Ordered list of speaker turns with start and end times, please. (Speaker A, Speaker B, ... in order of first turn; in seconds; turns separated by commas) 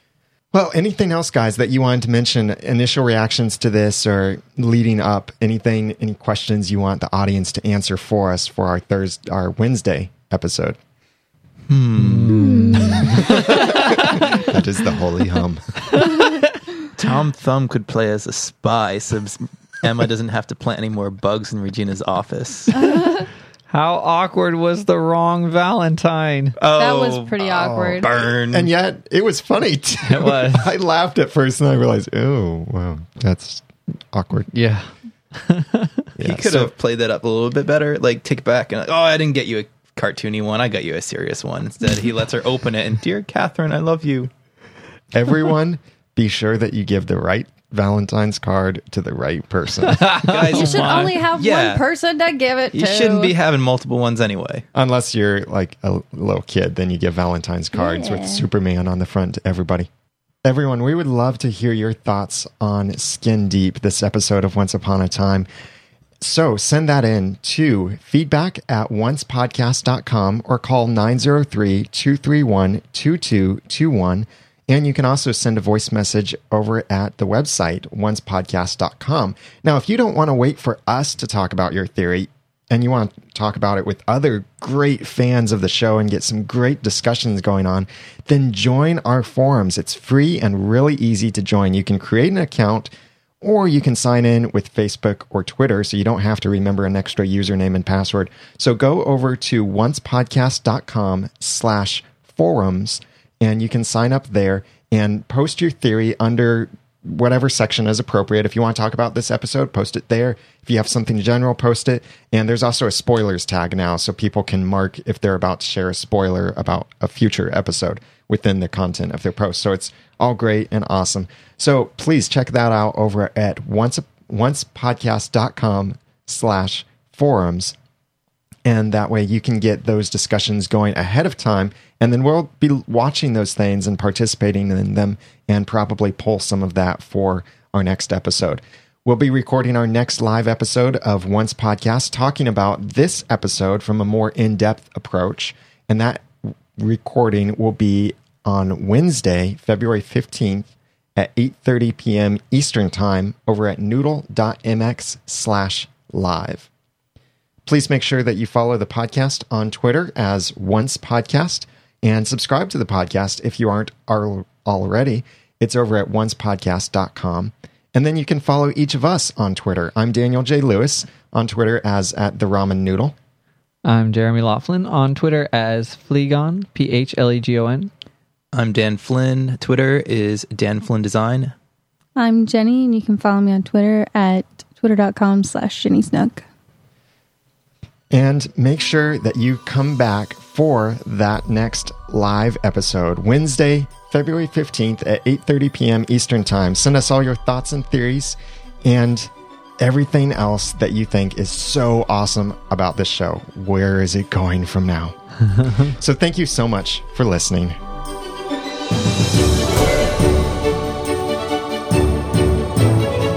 Speaker A: 0.5-10.8, Speaker B: 11.7-13.3, Speaker C: 12.0-14.5, Speaker D: 12.3-13.1, Speaker A: 13.2-16.0, Speaker C: 15.9-16.4, Speaker B: 17.0-23.0, Speaker D: 22.8-23.2, Speaker C: 23.7-26.6, Speaker B: 26.6-27.4, Speaker D: 26.8-28.1, Speaker A: 27.4-34.5, Speaker B: 28.0-28.7, Speaker C: 30.1-30.7, Speaker C: 34.5-36.1, Speaker A: 36.1-36.7, Speaker B: 36.2-44.3, Speaker A: 45.1-50.4, Speaker C: 49.9-51.0, Speaker B: 50.0-51.8, Speaker D: 50.5-53.4, Speaker B: 52.7-54.6, Speaker A: 54.7-59.9, Speaker D: 57.7-58.5, Speaker A: 60.4-65.5, Speaker A: 66.2-92.9, Speaker A: 93.4-127.7, Speaker A: 128.6-156.7, Speaker A: 157.7-173.1, Speaker C: 173.8-177.9, Speaker B: 178.5-181.5, Speaker D: 182.2-186.4, Speaker A: 188.1-205.2, Speaker A: 205.8-207.8